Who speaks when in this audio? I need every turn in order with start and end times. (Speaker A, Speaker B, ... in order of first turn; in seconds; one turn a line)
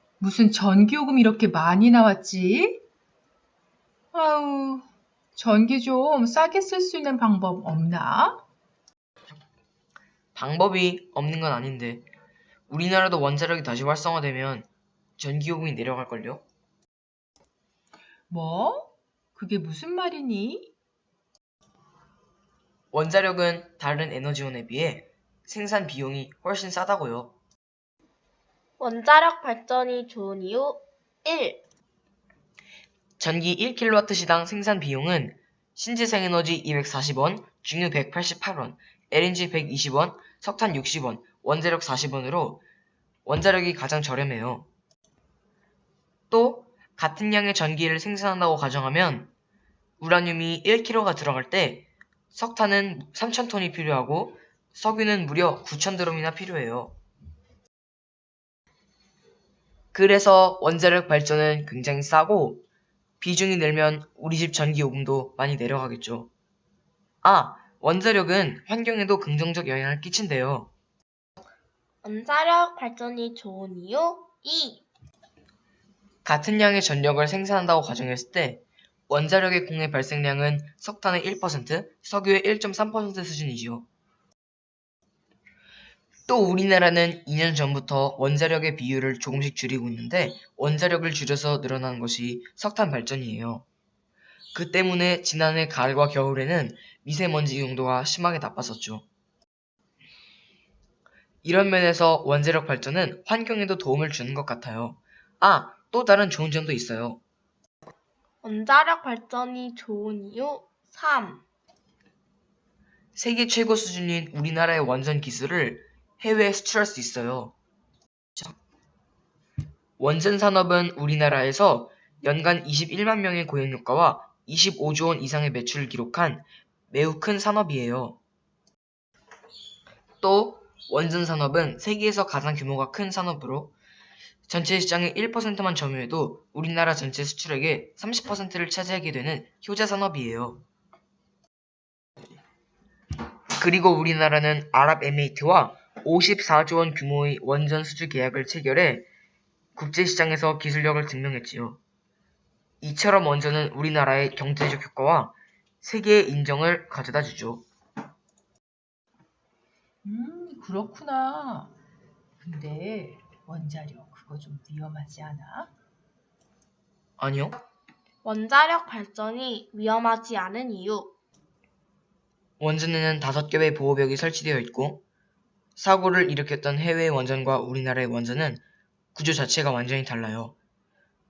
Speaker A: 0.2-2.8
Speaker A: 4.1-8.4
Speaker B: 10.3-12.1
Speaker B: 12.7-16.4
Speaker A: 18.3-20.7
Speaker B: 22.9-27.4
Speaker C: 28.8-31.6
Speaker B: 33.2-42.6
Speaker B: 43.2-44.7
Speaker B: 46.3-49.3
Speaker B: 50.0-57.0
Speaker B: 59.9-62.6
Speaker B: 63.2-66.3
Speaker B: 67.2-70.7
Speaker C: 72.0-74.8
Speaker B: 76.2-83.9
Speaker B: 86.3-93.7
Speaker B: 94.5-99.1
Speaker B: 101.4-107.2
Speaker C: 108.4-111.4
Speaker B: 113.2-117.5
Speaker B: 120.0-128.2
Speaker B: 130.2-133.8
Speaker B: 134.5-140.7
Speaker B: 143.6-149.1
Speaker B: 149.8-151.8
Speaker B: 152.8-157.7
Speaker A: 160.0-161.7
Speaker A: 162.4-165.7
Speaker B: 167.2-167.6
Speaker C: 168.2-171.2
Speaker B: 172.6-175.0
Speaker B: 175.8-178.6
Speaker B: 179.2-180.6